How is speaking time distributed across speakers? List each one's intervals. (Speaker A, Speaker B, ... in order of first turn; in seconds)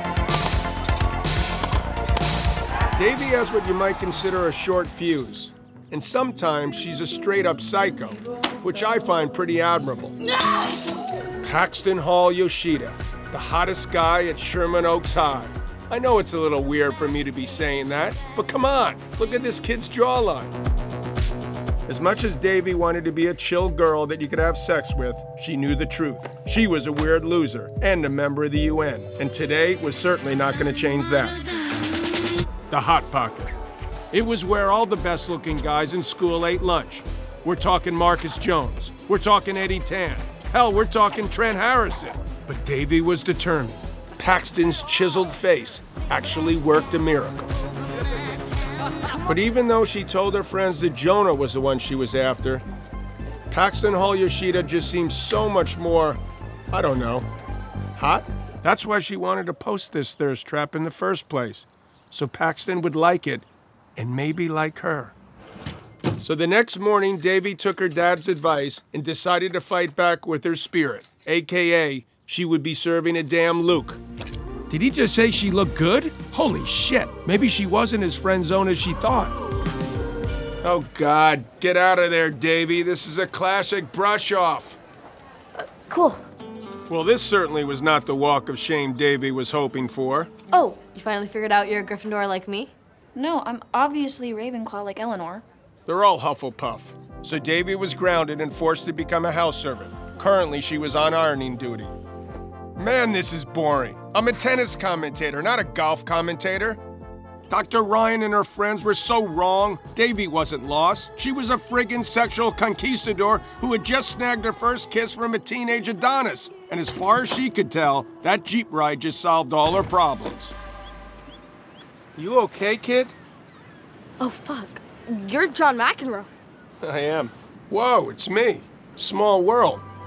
Speaker A: 3.0-10.2, 11.4-20.5, 21.9-31.4, 32.7-33.5, 34.1-47.5, 49.2-52.6, 53.5-56.2, 56.7-57.3, 58.0-65.1, 66.2-74.0, 74.7-79.3, 80.6-84.8, 86.9-90.3, 95.9-101.9, 102.8-106.8, 107.5-120.6, 122.2-123.1, 126.8-129.8
Speaker B: 85.6-86.2, 90.5-92.7, 124.2-126.3
Speaker C: 93.2-95.4